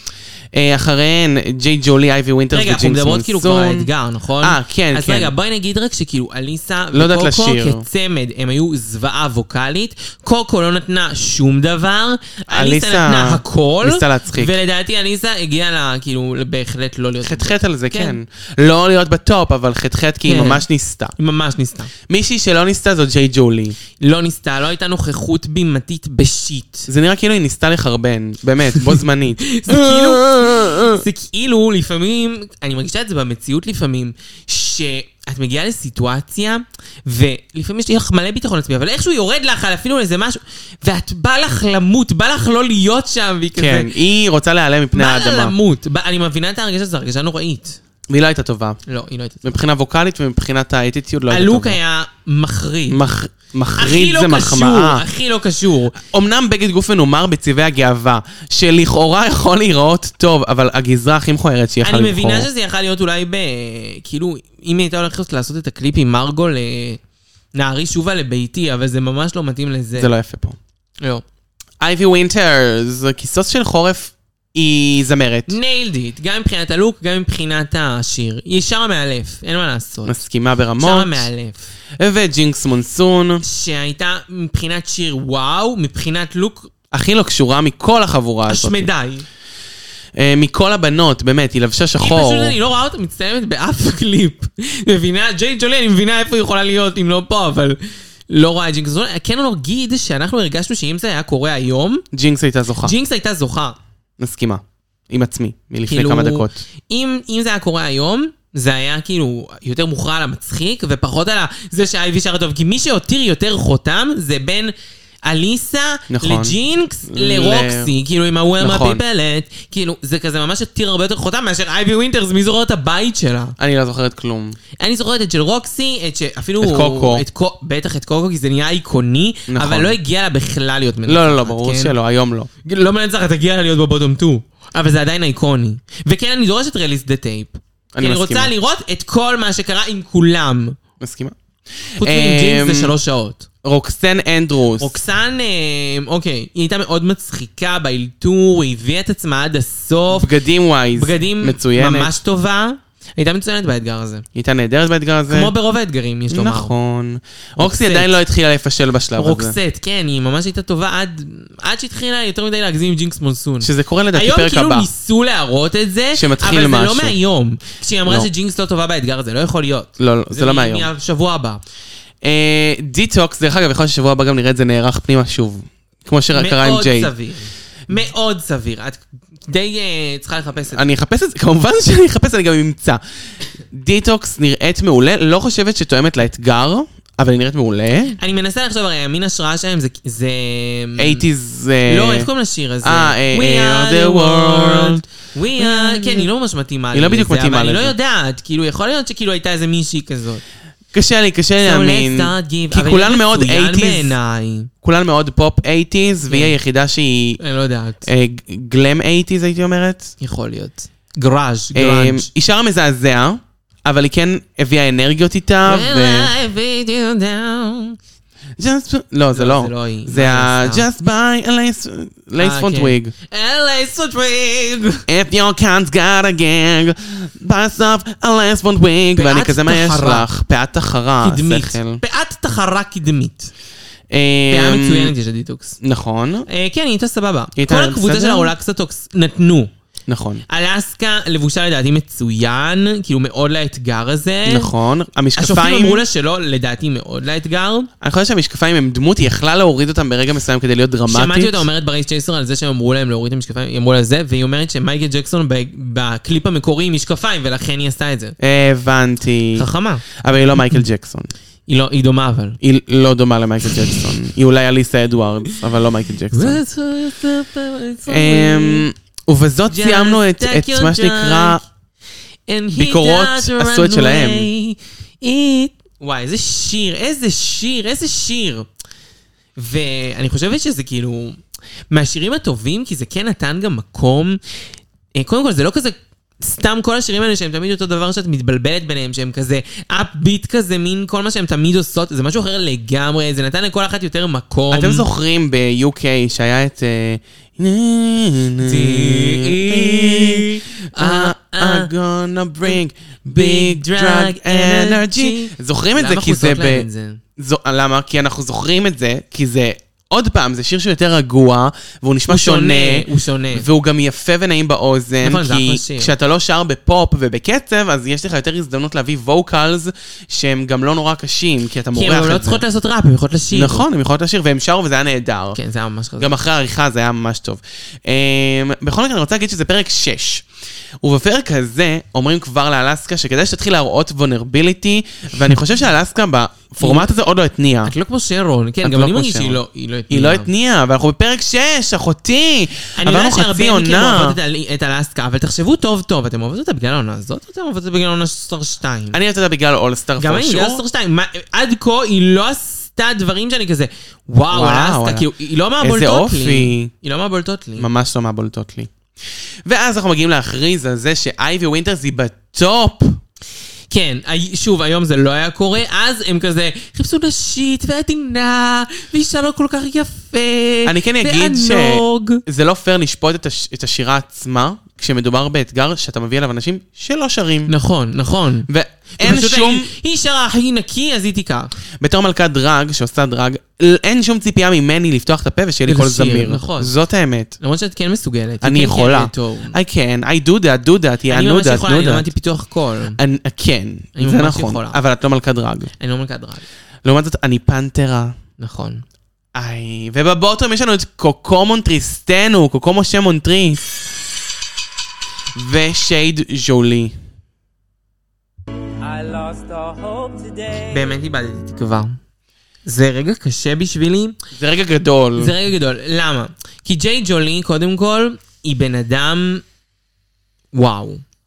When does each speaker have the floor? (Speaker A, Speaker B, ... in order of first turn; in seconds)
Speaker A: 0.5-3.9, 4.4-5.3, 6.9-7.8, 12.5-14.6, 17.2-21.1, 22.1-23.8, 26.9-31.0, 43.6-45.5, 48.1-48.8, 49.4-51.8, 52.9-55.0, 56.0-62.5, 70.0-70.6, 71.8-75.5, 80.1-81.3, 82.0-83.4, 86.9-88.9, 90.2-92.6, 102.1-103.0, 104.2-106.6, 116.1-116.6, 117.1-117.9, 118.6-119.0, 123.6-124.6, 126.6-127.2, 129.5-130.0, 131.1-132.5, 137.9-138.5, 141.0-141.3, 142.0-142.9, 143.6-144.9, 150.1-152.1, 154.3-155.5, 156.3-159.6, 163.6-164.9, 166.1-167.2, 170.0-170.9, 172.2-177.1, 180.7-183.0, 183.7-188.2, 191.0-192.3, 192.8-195.0, 195.6-196.3, 196.9-197.9, 200.9-204.2, 204.8-207.4, 208.1-210.1, 211.7-216.3, 218.6-223.1, 225.1-232.0, 234.1-235.1, 235.8-236.5, 237.6-238.6, 240.1-240.4, 244.5-246.0, 248.0-251.7, 258.4-259.7, 260.2-261.3, 262.6-266.6, 268.1-271.6, 272.7-274.5, 294.7-306.9, 307.4-322.6, 323.5-325.6, 326.2-330.5, 331.0-337.9, 338.8-344.4, 349.1-350.8, 354.5-356.9, 357.8-358.9, 359.7-363.2, 370.9-377.7, 378.7-379.9, 382.0-387.6, 388.6-392.3, 393.2-395.9, 397.1-398.3, 399.6-403.8, 405.6-407.1, 414.6-415.5
Speaker B: 2.5-18.2, 20.3-20.6, 21.2-21.9, 24.0-26.9, 29.4-43.9, 44.9-47.8, 48.9-49.5, 51.3-53.0, 53.8-56.0, 61.8-67.0, 67.5-70.1, 75.5-80.2, 80.8-81.7, 83.4-86.7, 88.5-89.3, 92.0-97.8, 98.3-102.0, 102.8-103.8, 105.9-114.7, 115.2-123.5, 124.8-131.9, 132.6-140.8, 142.0-143.5, 144.8-150.3, 151.0-154.3, 155.3-156.7, 157.6-158.1, 159.1-171.6, 176.3-180.9, 188.2-191.2, 191.9-200.4, 201.6-204.7, 206.3-206.6, 207.4-208.1, 210.2-212.3, 215.6-218.0, 219.3-220.9, 222.4-225.1, 229.1-230.3, 231.2-233.5, 234.5-235.8, 236.5-239.7, 240.5-244.7, 245.4-247.9, 251.1-258.4, 259.6-260.1, 261.7-262.6, 266.3-268.9, 269.7-271.6, 272.5-278.7, 279.6-281.4, 281.9-284.4, 285.2-295.1, 298.6-301.9, 303.3-307.2, 312.3-313.7, 315.2-316.1, 321.9-323.9, 325.5-326.4, 336.8-337.1, 337.8-340.5, 343.0-349.2, 350.2-357.9, 363.9-372.4, 377.7-378.7, 379.2-381.7, 385.9-386.9, 387.6-389.8, 391.3-393.2, 394.2-395.0, 396.0-396.6, 398.6-399.0, 410.9-412.2, 412.9-414.4, 415.4-419.6, 420.7-421.2
Speaker C: 409.0-411.1